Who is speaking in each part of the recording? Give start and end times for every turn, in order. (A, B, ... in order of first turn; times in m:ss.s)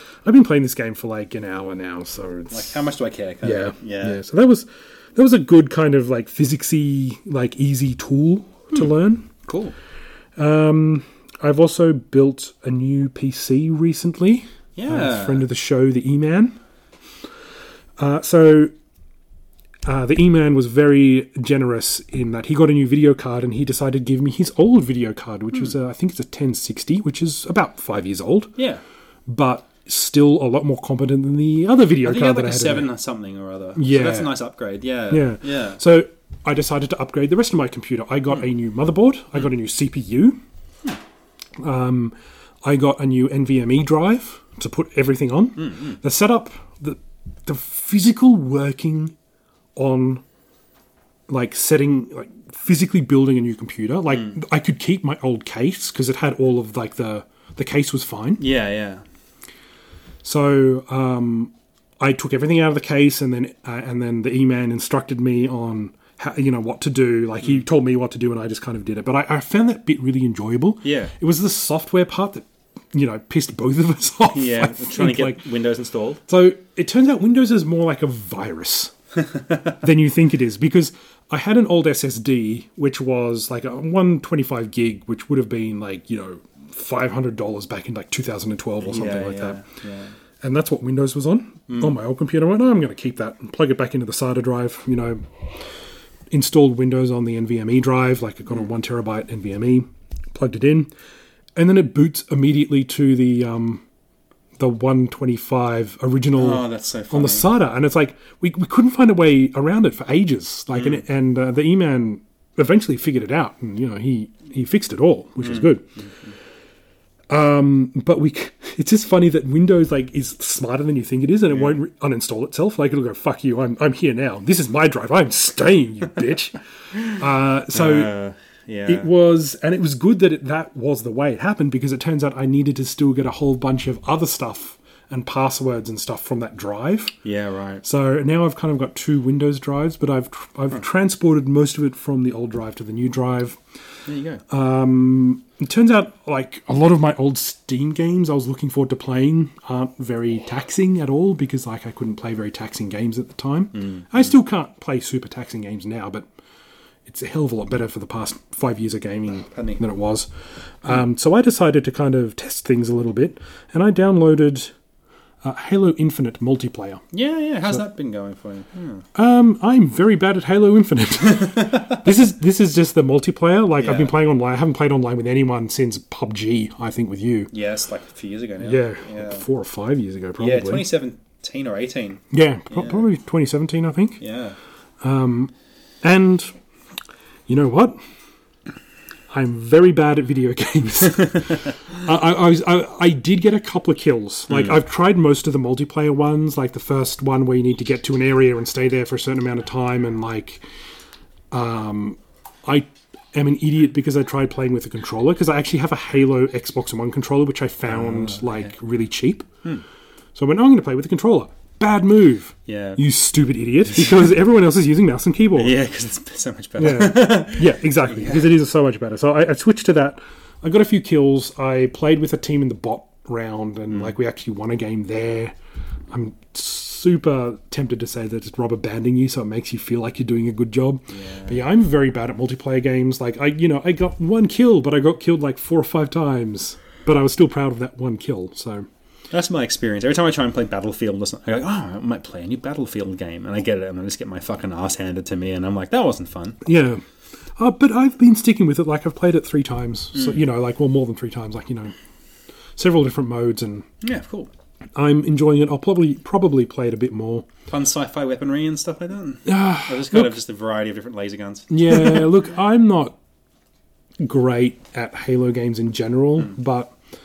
0:00.2-0:02.9 A
0:02.5-0:04.2 B
0:03.4-0:09.3 A
0:09.4-0:09.7 B
0:10.4-0:16.6 A
0:14.8-0:15.4 B
0:18.0-0:18.7 A
0:19.8-0:28.5 A
0:28.6-0:28.8 B
0:29.3-0:32.9 A
0:32.0-0:35.8 B
0:33.8-0:34.4 A
0:35.1-0:40.4 A
0:41.6-0:49.1 A
0:45.6-0:45.9 B
0:49.8-0:50.2 A
0:51.3-0:58.4 A
0:58.4-0:59.0 B
1:00.2-1:15.4 A
1:10.8-1:11.1 B
1:14.3-1:16.2 B
1:16.3-1:18.9 A
1:19.8-1:29.6 A
1:28.8-1:30.1 B
1:30.4-1:35.2 A
1:31.7-1:32.0 B
1:36.3-1:40.9 A
1:41.6-1:43.8 A
1:44.6-1:55.9 A
1:46.4-1:47.5 B
1:50.7-1:51.0 B
1:55.4-1:56.1 B
1:57.3-2:08.1 A
2:01.5-2:01.8 B
2:07.7-2:09.1 B
2:08.9-2:17.2 A
2:17.2-2:17.8 B
2:17.8-2:23.6 A
2:24.1-2:24.4 B
2:24.5-2:36.3 A
2:33.8-2:34.3 B
2:37.0-2:40.3 A
2:39.5-2:39.8 B
2:40.8-2:44.7 A
2:45.4-2:47.0 A
2:47.1-2:49.0 B
2:49.1-2:57.5 A
2:53.8-2:54.1 B
2:57.5-2:59.4 B
2:58.6-3:00.8 A
3:00.4-3:03.0 B
3:02.3-3:04.2 A
3:04.2-3:04.6 B
3:05.0-3:06.5 A
3:07.5-3:08.0 A
3:09.3-3:20.6 A
3:21.5-3:29.5 A
3:27.9-3:28.7 B
3:30.3-3:35.8 A
3:32.6-3:33.0 B
3:35.6-3:38.5 B
3:36.8-3:45.6 A
3:46.1-3:58.9 A
3:51.1-3:51.6 B
3:59.3-4:06.6 B
4:06.6-4:07.0 A
4:07.6-4:11.9 A
4:10.1-4:10.4 B
4:12.8-4:13.8 A
4:14.0-4:14.5 B
4:15.0-4:17.5 A
4:17.7-4:22.3 B
4:19.4-4:20.3 A
4:21.7-4:23.2 A
4:24.2-4:26.9 A